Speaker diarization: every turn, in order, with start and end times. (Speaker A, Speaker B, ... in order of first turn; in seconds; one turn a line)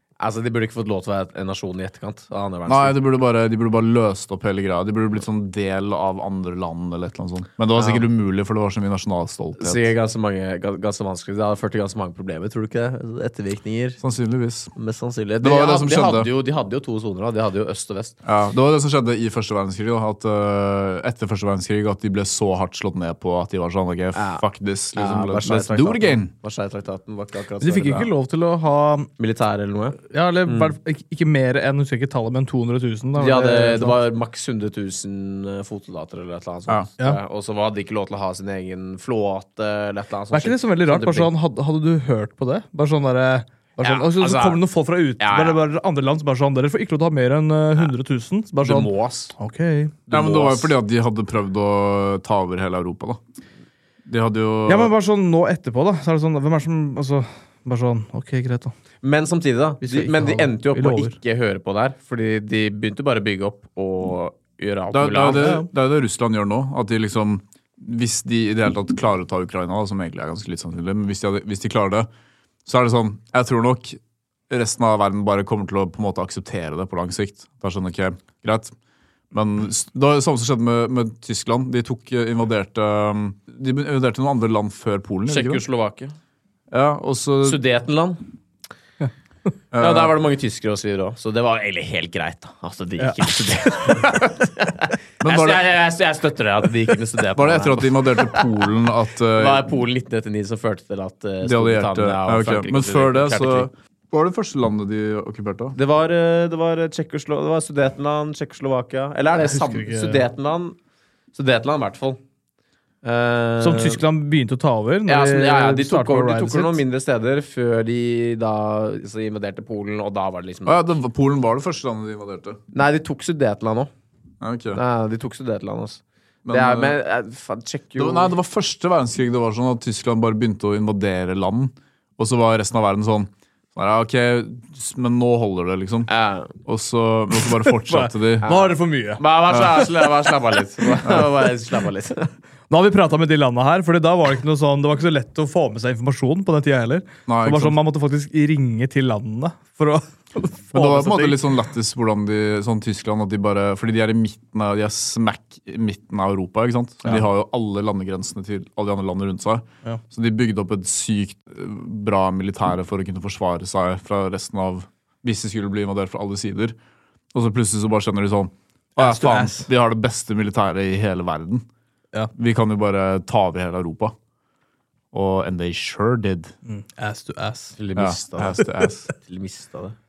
Speaker A: 0.2-3.0
Speaker B: 2.7-9.9
Speaker A: 7.8-8.1
Speaker A: 9.6-14.0
Speaker B: 14.0-14.7
Speaker A: 14.8-18.1
Speaker B: 15.4-16.3
Speaker B: 18.2-26.3
Speaker A: 24.1-28.0
Speaker C: 27.6-29.1
Speaker A: 29.2-30.7
Speaker C: 30.1-34.0
Speaker A: 33.2-41.3
Speaker C: 40.3-50.0
Speaker A: 43.8-44.6
Speaker A: 45.2-45.6
Speaker A: 48.6-49.3
Speaker A: 50.1-50.7
Speaker B: 50.1-53.2
Speaker B: 54.0-54.9
Speaker C: 54.6-58.7
Speaker A: 59.0-65.5
Speaker C: 59.8-61.2
Speaker B: 64.9-72.1
Speaker C: 65.3-65.7
Speaker B: 72.6-78.7
Speaker B: 79.3-85.6
Speaker A: 85.3-86.1
Speaker B: 86.7-87.6
Speaker A: 87.4-88.2
Speaker B: 89.7-90.1
Speaker A: 89.8-98.5
Speaker C: 93.0-94.2
Speaker B: 95.2-95.7
Speaker B: 97.3-99.7
Speaker A: 99.3-103.7
Speaker B: 101.4-105.8
Speaker A: 105.7-110.8
Speaker C: 109.3-110.2
Speaker A: 111.3-112.2
Speaker A: 113.0-114.0
Speaker C: 113.6-116.8
Speaker A: 115.1-120.8
Speaker B: 120.6-122.6
Speaker A: 122.7-123.9
Speaker B: 124.4-124.8
Speaker A: 124.7-128.3
Speaker B: 126.4-127.0
Speaker B: 128.0-136.1
Speaker A: 136.1-136.5
Speaker B: 136.6-138.5
Speaker C: 137.6-139.2
Speaker A: 138.4-142.3
Speaker B: 139.5-139.9
Speaker B: 141.0-141.3
Speaker C: 142.7-151.4
Speaker B: 147.3-147.8
Speaker B: 150.7-166.8
Speaker B: 167.3-171.7
Speaker C: 168.9-169.7
Speaker B: 172.3-174.1
Speaker B: 175.1-176.5
Speaker C: 176.7-177.8
Speaker A: 177.8-179.9
Speaker B: 177.9-179.1